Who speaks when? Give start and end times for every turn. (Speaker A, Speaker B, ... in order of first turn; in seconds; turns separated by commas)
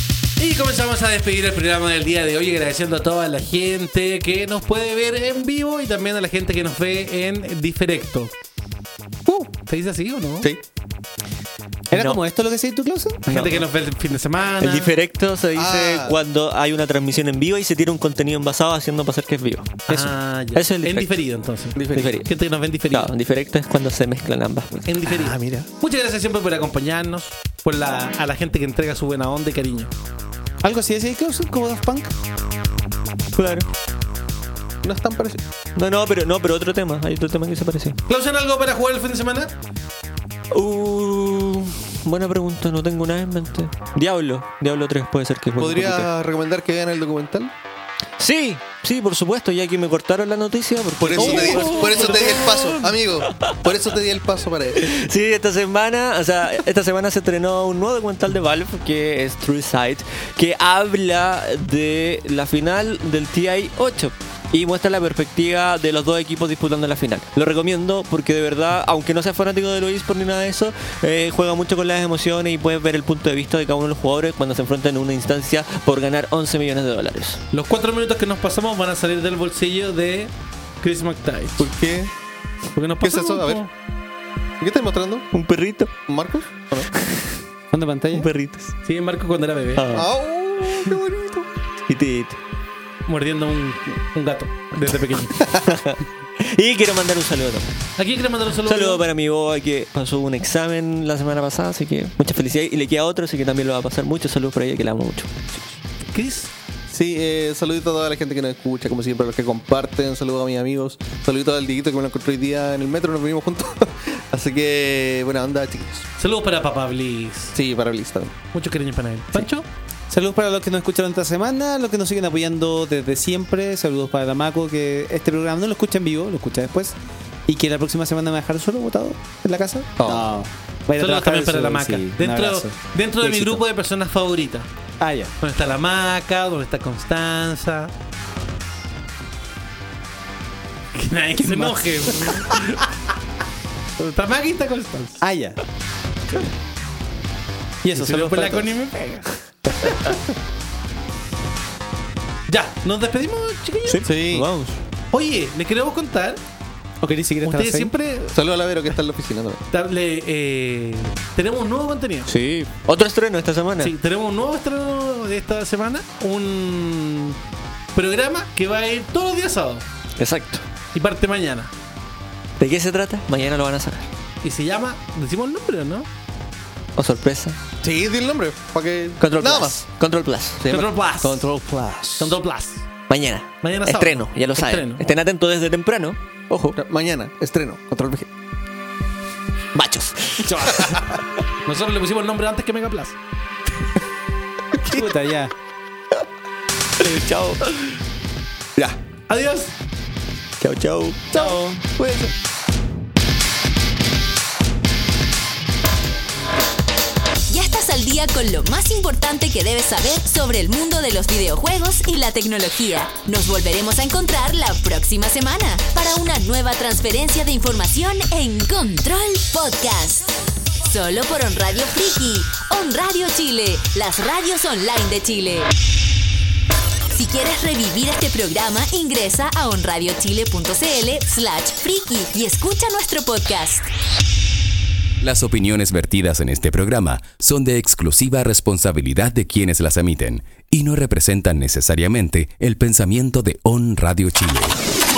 Speaker A: 0.4-8.3, Speaker B: 9.2-9.5, Speaker A: 9.7-10.5, Speaker C: 11.9-13.2, Speaker D: 11.9-12.2, Speaker A: 13.2-14.9, Speaker D: 13.3-13.7, Speaker D: 14.6-19.9, Speaker B: 15.5-16.2, Speaker A: 19.9-23.1, Speaker D: 20.5-21.1, Speaker B: 21.8-22.2, Speaker D: 21.9-22.3, Speaker D: 22.9-25.0, Speaker A: 24.9-29.9, Speaker B: 25.0-25.7, Speaker C: 30.6-32.1, Speaker D: 33.3-33.7, Speaker B: 34.8-35.4, Speaker D: 35.8-38.0, Speaker A: 38.1-39.5, Speaker D: 40.5-46.1, Speaker B: 45.5-47.5, Speaker D: 48.2-53.7, Speaker B: 51.0-55.0, Speaker A: 51.4-51.8, Speaker D: 54.8-77.4, Speaker A: 77.5-81.7, Speaker B: 81.6-82.1, Speaker A: 82.7-83.7, Speaker B: 83.0-83.6, Speaker B: 84.6-85.3, Speaker D: 85.3-86.0, Speaker B: 86.1-86.9, Speaker D: 87.0-87.3, Speaker C: 87.7-88.3, Speaker D: 88.1-88.8, Speaker A: 88.8-89.9, Speaker D: 89.8-90.1, Speaker B: 89.9-91.5, Speaker D: 91.9-92.4, Speaker A: 93.1-95.5, Speaker B: 95.4-95.6, Speaker D: 95.7-97.7, Speaker A: 98.0-99.0, Speaker D: 98.6-105.8, Speaker A: 106.1-106.5, Speaker B: 106.9-116.1, Speaker A: 116.2-117.5, Speaker B: 117.5-118.3, Speaker A: 118.5-119.7, Speaker C: 120.1-133.6, Speaker B: 130.0-130.3, Speaker A: 131.0-134.7, Speaker C: 135.0-135.3, Speaker A: 135.4-137.9, Speaker A: 140.9-142.9, Speaker C: 141.4-142.5, Speaker A: 144.0-145.2, Speaker C: 145.2-145.6, Speaker C: 147.8-148.7, Speaker A: 147.9-150.1, Speaker A: 152.5-154.1, Speaker D: 153.9-154.8, Speaker B: 154.0-154.5, Speaker A: 155.1-156.4, Speaker C: 157.0-157.9, Speaker A: 157.4-158.3, Speaker B: 158.3-159.6, Speaker A: 159.7-162.3, Speaker D: 162.3-163.9, Speaker A: 163.8-167.4, Speaker A: 167.9-169.8, Speaker D: 170.2-170.6, Speaker A: 170.9-171.7, Speaker D: 172.6-174.1, Speaker A: 174.4-176.1, Speaker D: 176.9-177.6, Speaker B: 177.8-179.8, Speaker D: 179.2-180.6, Speaker B: 180.6-182.3, Speaker A: 180.7-181.5, Speaker A: 182.2-182.8, Speaker D: 183.1-186.8, Speaker A: 183.6-185.1, Speaker B: 186.7-188.3, Speaker D: 189.7-191.0, Speaker C: 190.4-191.2, Speaker A: 191.7-193.2, Speaker C: 194.8-195.5, Speaker D: 197.0-198.0, Speaker A: 199.3-199.8, Speaker D: 200.6-202.3, Speaker C: 201.3-201.9, Speaker E: 207.5-225.7, Speaker E: 227.1-233.9, Speaker F: 235.2-244.8